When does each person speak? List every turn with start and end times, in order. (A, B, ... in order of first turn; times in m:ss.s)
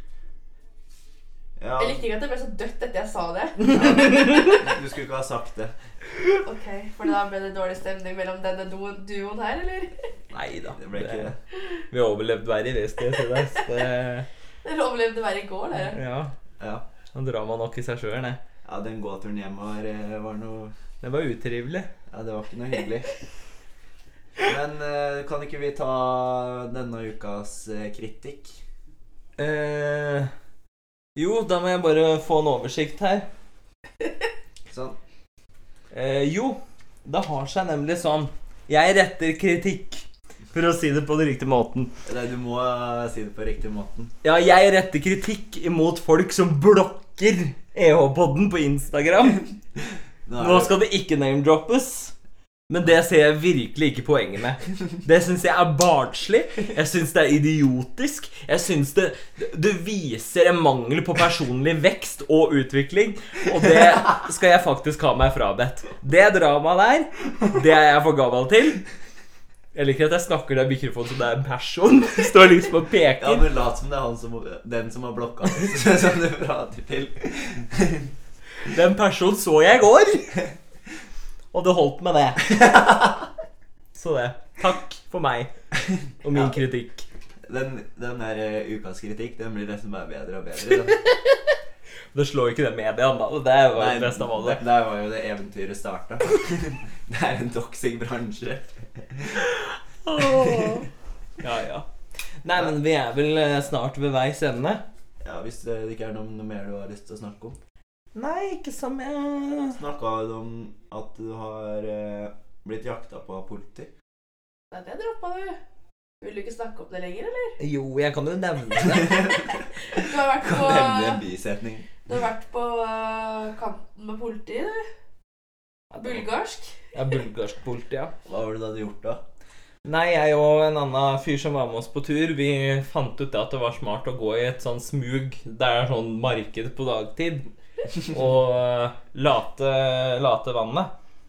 0:01.6-0:02.0 A
0:01.8-0:04.5 B
0:03.7-0:05.7 A
0:06.4-0:09.9 B
0:10.3-0:11.3 C
0:10.7-0:11.4 A
0:11.9-0:14.2 C
0:14.6-0:16.0 B
0:15.8-0:16.3 C
0:16.6-0:16.8 A
0:17.1-0:18.4 C
0:18.6-0:20.7 A
0:21.0-0:21.9 C
0:22.1-0:23.1 A
0:24.4-0:28.6 A
0:29.4-0:30.3 C
0:31.2-0:33.3 C
0:34.7-0:35.0 A
0:35.9-0:41.9 C
0:42.0-0:44.1 A
0:44.2-0:49.4 C
0:50.2-0:50.7 A
0:50.4-0:52.1 C
0:52.7-1:08.8 C
1:09.7-1:13.5 C
1:13.2-1:18.1 A
1:18.6-1:20.5 C
1:21.5-1:22.6 C
1:23.9-1:25.5 C
1:26.2-1:27.1 C
1:26.3-1:26.6 A
1:27.5-1:31.0 A
1:30.7-1:31.3 C
1:32.1-1:34.6 C
1:33.7-1:39.4 A
1:40.0-1:40.9 C
1:40.2-1:40.7 A
1:41.4-1:41.8 C
1:42.4-1:44.8 C
1:45.2-1:47.6 A
1:48.1-1:49.8 C
1:49.7-1:53.9 A
1:54.7-1:55.6 B
1:56.2-1:57.6 B
1:57.6-1:59.4 C
1:59.3-2:01.2 B
2:00.2-2:01.9 A
2:02.0-2:04.9 B
2:05.9-2:06.2 C
2:06.0-2:06.8 B
2:06.9-2:08.1 C
2:08.2-2:09.2 A
2:09.8-2:17.5 C
2:18.0-2:20.9 C